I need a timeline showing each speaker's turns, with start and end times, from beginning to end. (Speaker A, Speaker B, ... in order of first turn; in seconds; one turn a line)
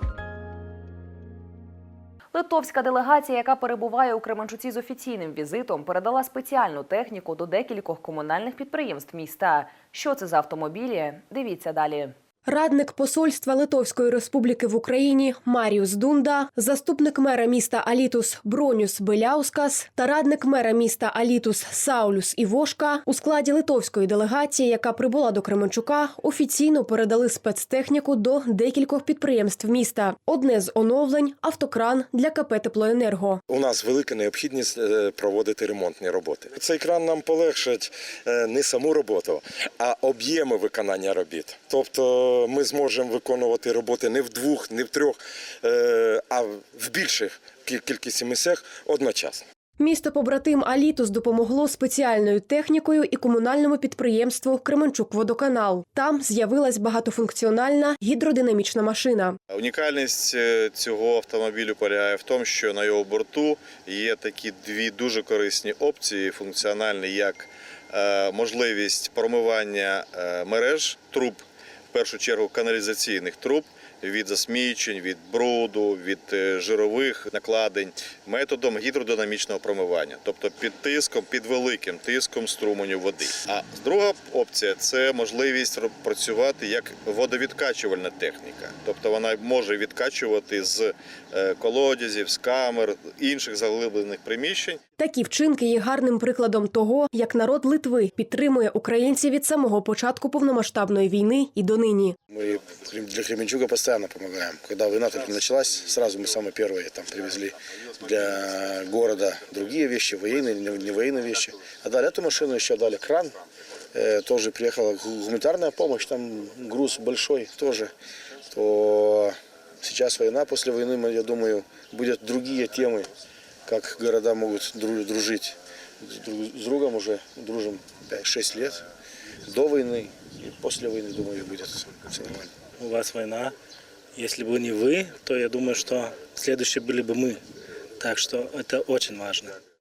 Speaker A: 2.3-12.1
Speaker B: 12.5-33.4
Speaker C: 33.5-49.4
Speaker B: 49.8-59.4
Speaker D: 59.5-94.8
Speaker B: 95.0-102.2
Speaker E: 102.3-113.3
Speaker E: 113.9-117.9
Speaker E: 118.5-123.1
Speaker E: 123.7-128.8
Speaker E: 129.5-132.5
Speaker F: 132.8-133.5
Speaker F: 134.2-137.4
Speaker F: 138.0-139.5